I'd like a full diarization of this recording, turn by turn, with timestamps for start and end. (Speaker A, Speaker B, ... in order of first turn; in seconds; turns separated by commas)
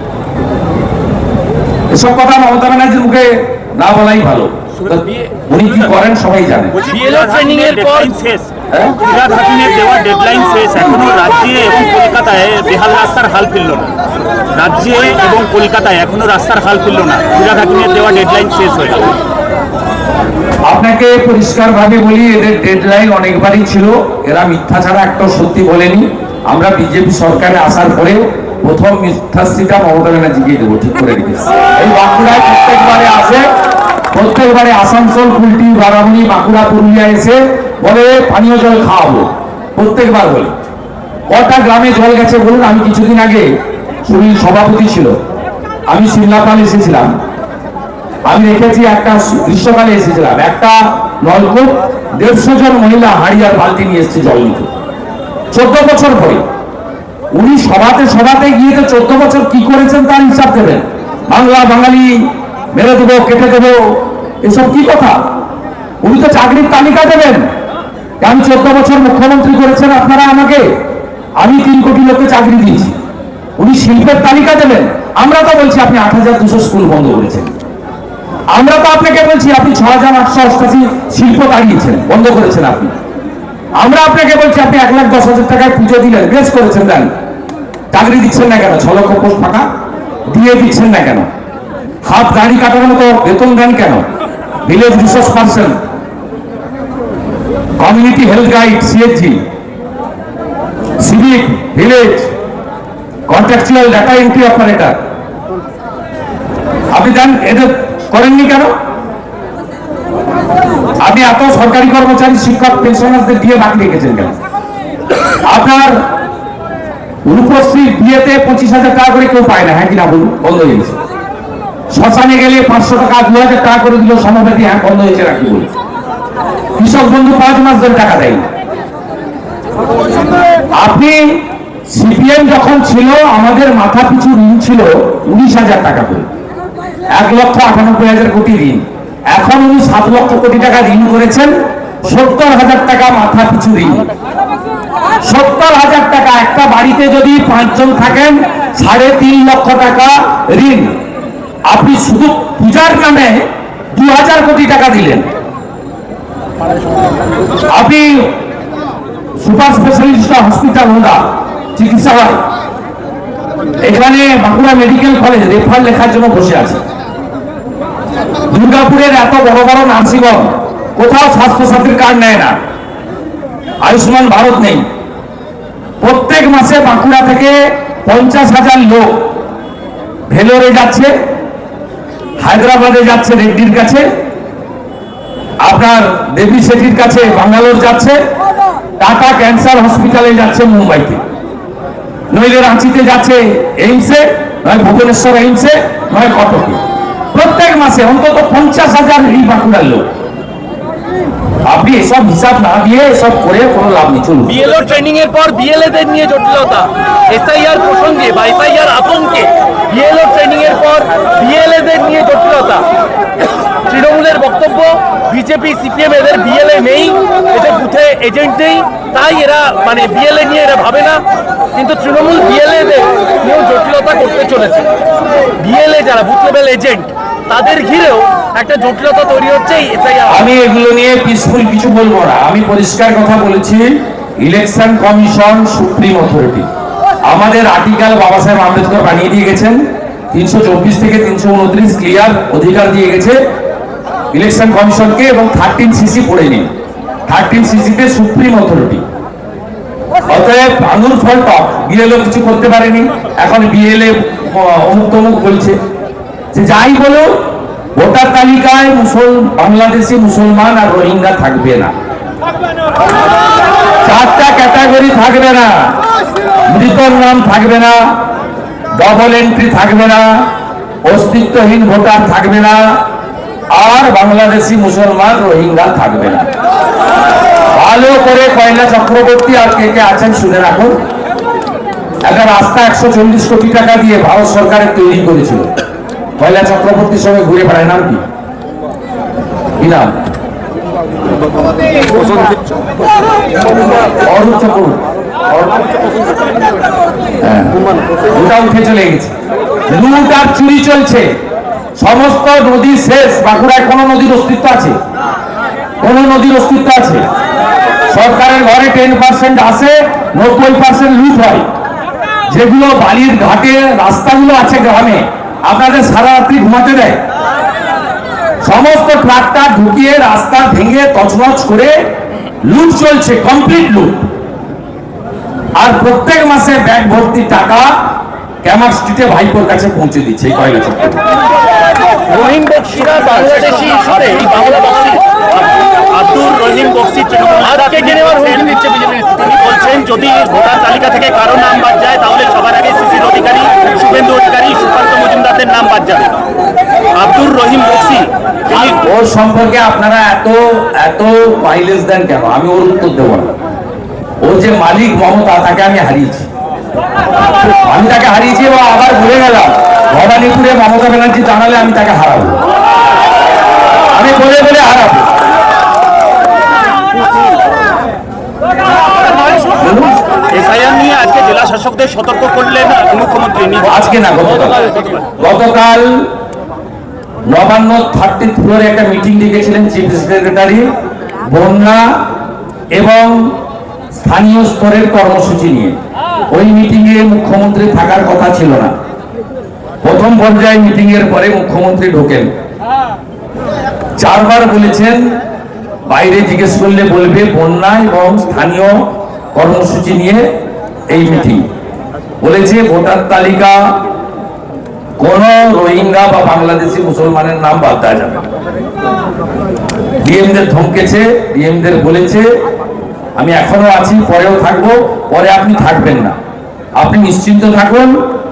Speaker A: 1.9-6.8, Speaker B: 4.8-5.3, Speaker B: 6.7-13.9, Speaker C: 6.9-8.1, Speaker A: 8.7-8.9, Speaker B: 14.5-19.1, Speaker A: 20.6-33.5, Speaker A: 34.1-40.5, Speaker A: 41.3-43.5, Speaker A: 44.0-45.1, Speaker A: 45.9-47.1, Speaker A: 48.3-54.7, Speaker A: 55.5-56.4, Speaker A: 57.3-65.2, Speaker A: 66.0-67.4, Speaker A: 68.2-70.7, Speaker A: 71.4-73.0, Speaker A: 73.6-77.5, Speaker A: 78.5-82.9, Speaker A: 83.8-87.1, Speaker A: 87.9-89.7, Speaker A: 90.3-91.3, Speaker A: 92.0-94.0, Speaker A: 94.6-95.8, Speaker A: 97.8-99.4, Speaker A: 101.0-102.3, Speaker A: 103.3-105.0, Speaker A: 106.9-108.7, Speaker A: 111.0-114.3, Speaker A: 115.4-116.0, Speaker A: 117.2-121.0, Speaker A: 121.9-125.7, Speaker A: 126.8-128.4, Speaker A: 130.7-136.2, Speaker A: 137.1-144.1, Speaker A: 145.2-150.9, Speaker A: 151.7-155.3, Speaker A: 157.7-158.3, Speaker A: 159.4-161.2, Speaker A: 161.8-162.4, Speaker A: 163.8-166.8, Speaker A: 168.5-172.5, Speaker A: 173.8-174.8, Speaker A: 176.0-179.4, Speaker A: 180.3-181.1, Speaker A: 182.4-184.1, Speaker A: 185.6-188.2, Speaker A: 189.0-191.2, Speaker A: 192.3-196.8, Speaker A: 197.3-200.0, Speaker A: 201.7-204.6, Speaker C: 204.5-212.8, Speaker C: 213.8-221.2, Speaker C: 221.7-224.9, Speaker C: 225.6-230.4, Speaker A: 230.3-236.7, Speaker A: 237.2-243.4, Speaker A: 244.3-246.7, Speaker A: 247.3-249.0, Speaker A: 250.3-255.8, Speaker A: 256.5-257.3, Speaker A: 257.9-261.9, Speaker A: 264.0-265.9, Speaker A: 266.7-268.0, Speaker A: 268.9-270.5, Speaker A: 271.1-272.8, Speaker A: 273.7-276.5, Speaker A: 277.7-280.9, Speaker A: 282.2-285.7, Speaker A: 286.4-288.2, Speaker A: 289.8-290.1, Speaker A: 294.2-295.9, Speaker A: 297.4-297.8, Speaker A: 298.3-299.3, Speaker A: 299.9-301.3, Speaker A: 302.0-305.0, Speaker A: 306.0-307.2, Speaker A: 308.1-311.6, Speaker A: 312.5-317.2, Speaker A: 318.6-321.9, Speaker A: 322.6-324.2, Speaker A: 325.8-327.9, Speaker A: 328.6-331.2, Speaker C: 332.3-335.2, Speaker B: 333.1-335.1, Speaker B: 335.6-338.7, Speaker C: 337.6-339.5, Speaker B: 339.4-346.4, Speaker B: 347.1-349.0, Speaker A: 348.7-353.5, Speaker A: 354.4-356.5, Speaker A: 357.6-362.6, Speaker A: 364.1-365.3, Speaker A: 369.8-370.2, Speaker B: 370.5-373.9, Speaker A: 373.8-376.3, Speaker A: 377.5-380.9, Speaker A: 381.4-382.1, Speaker A: 382.9-383.6, Speaker A: 384.2-385.9, Speaker A: 386.5-388.9, Speaker A: 390.0-392.5, Speaker A: 394.2-395.2, Speaker A: 396.1-399.0, Speaker A: 399.5-400.4, Speaker A: 401.1-401.6, Speaker A: 402.4-403.9, Speaker A: 405.2-408.4, Speaker A: 410.2-412.5, Speaker A: 413.4-416.3, Speaker A: 417.0-418.2